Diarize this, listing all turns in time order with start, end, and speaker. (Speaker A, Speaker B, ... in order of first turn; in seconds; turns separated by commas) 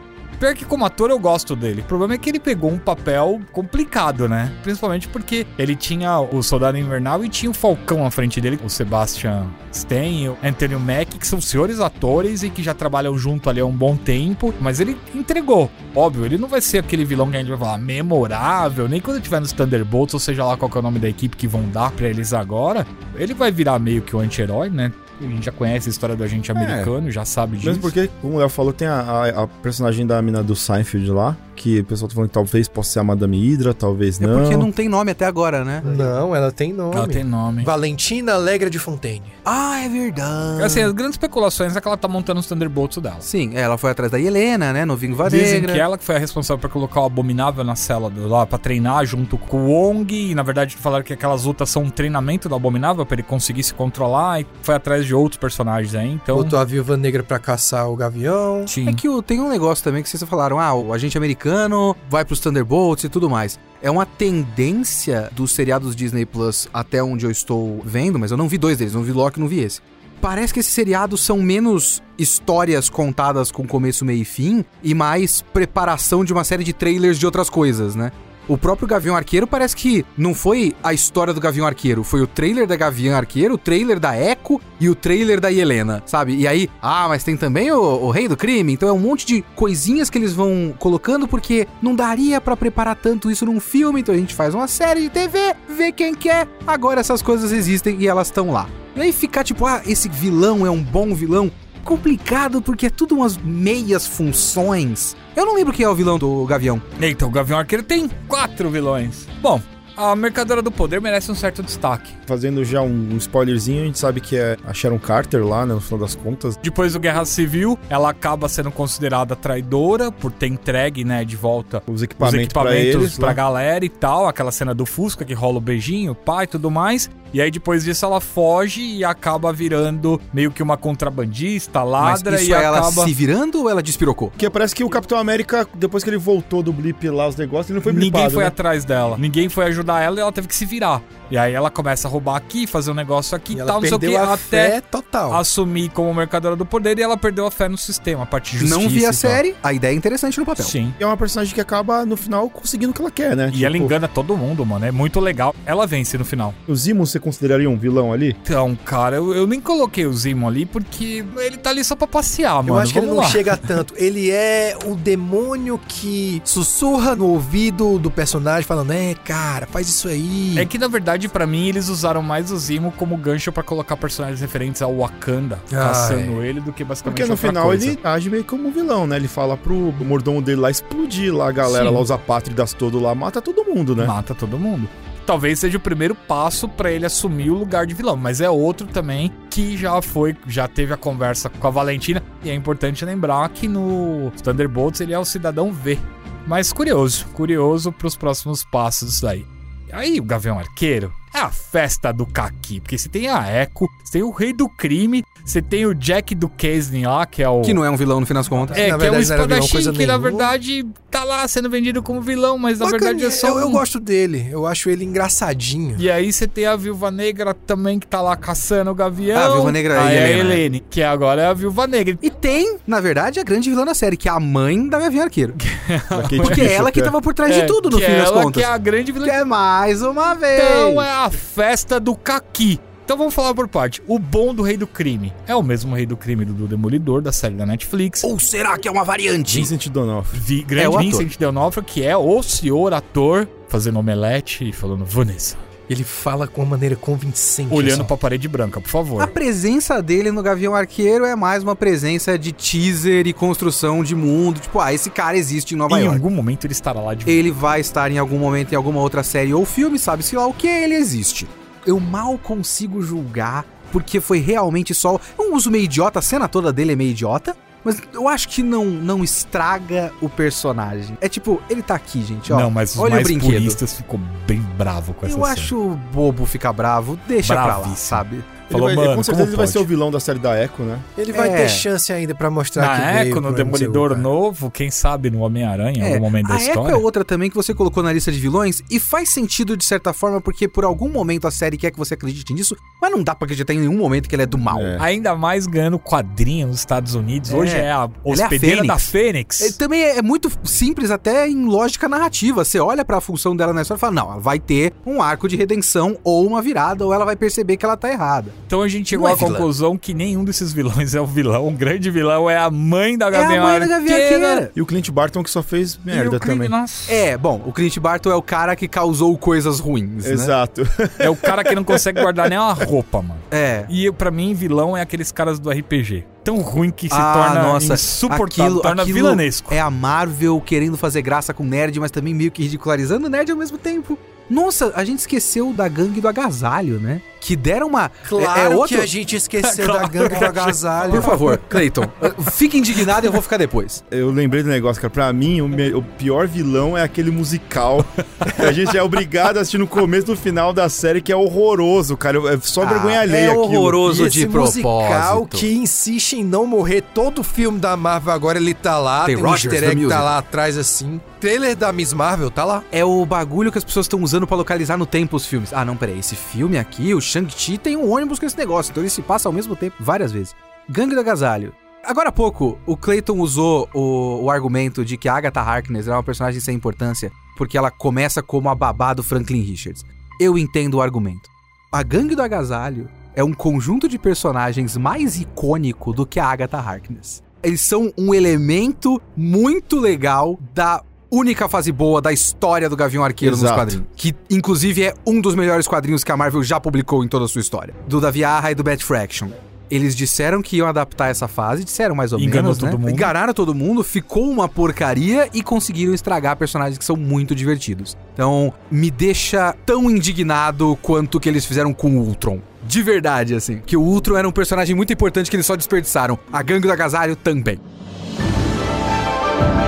Speaker A: 0.4-27.9, Speaker B: 26.6-26.9, Speaker B: 27.6-34.7, Speaker C: 34.2-35.9, Speaker D: 35.8-39.3, Speaker A: 36.9-37.7, Speaker C: 39.5-40.9, Speaker A: 40.6-43.3, Speaker C: 43.2-45.9, Speaker A: 45.2-56.6, Speaker D: 56.3-58.7, Speaker A: 58.7-59.0, Speaker C: 58.9-106.8, Speaker A: 107.0-112.2, Speaker B: 112.3-116.6, Speaker A: 116.6-133.1, Speaker B: 121.9-123.4, Speaker C: 132.0-134.4, Speaker B: 134.4-138.6, Speaker A: 137.8-144.8, Speaker D: 143.5-145.4, Speaker A: 145.3-149.4, Speaker C: 148.6-150.8, Speaker A: 150.6-151.0, Speaker B: 151.0-153.9, Speaker A: 153.5-156.6, Speaker B: 156.7-158.4, Speaker A: 158.4-163.6, Speaker D: 162.7-170.7, Speaker A: 170.6-178.0, Speaker D: 175.7-176.4, Speaker B: 177.0-184.1, Speaker A: 181.7-182.0, Speaker A: 184.0-207.8, Speaker C: 207.6-208.9, Speaker D: 208.7-210.5, Speaker A: 208.7-213.8, Speaker D: 212.8-216.1, Speaker A: 216.0-222.3, Speaker C: 219.3-220.6, Speaker C: 222.2-225.6, Speaker A: 225.6-226.7, Speaker B: 226.1-227.1, Speaker C: 226.4-228.7, Speaker A: 227.4-229.4, Speaker C: 229.2-231.1, Speaker A: 230.5-238.3, Speaker C: 238.2-239.7, Speaker B: 239.5-240.4, Speaker A: 240.3-245.6, Speaker C: 240.8-241.3, Speaker D: 245.9-248.1, Speaker A: 247.7-249.3, Speaker C: 249.2-256.2, Speaker A: 255.9-257.4, Speaker C: 257.3-273.8, Speaker A: 272.5-275.7, Speaker C: 275.2-278.5, Speaker A: 277.4-279.9, Speaker B: 278.7-281.1, Speaker D: 281.2-284.3, Speaker C: 281.3-281.9, Speaker A: 282.8-287.0, Speaker C: 286.0-295.0, Speaker B: 294.7-295.0, Speaker A: 295.0-299.8, Speaker C: 297.5-308.6, Speaker A: 308.7-314.6, Speaker C: 309.2-309.7, Speaker C: 313.3-314.7, Speaker B: 314.8-316.8, Speaker A: 316.1-317.2, Speaker C: 317.1-320.5, Speaker B: 320.2-322.3, Speaker A: 321.2-329.8, Speaker C: 323.5-323.9, Speaker C: 327.1-339.1, Speaker D: 338.2-341.7, Speaker A: 339.6-342.3, Speaker C: 341.0-344.0, Speaker B: 344.1-354.0, Speaker C: 352.8-355.7, Speaker D: 354.0-362.9, Speaker C: 359.2-360.3, Speaker C: 362.9-417.8, Speaker B: 393.4-394.0, Speaker A: 402.4-403.3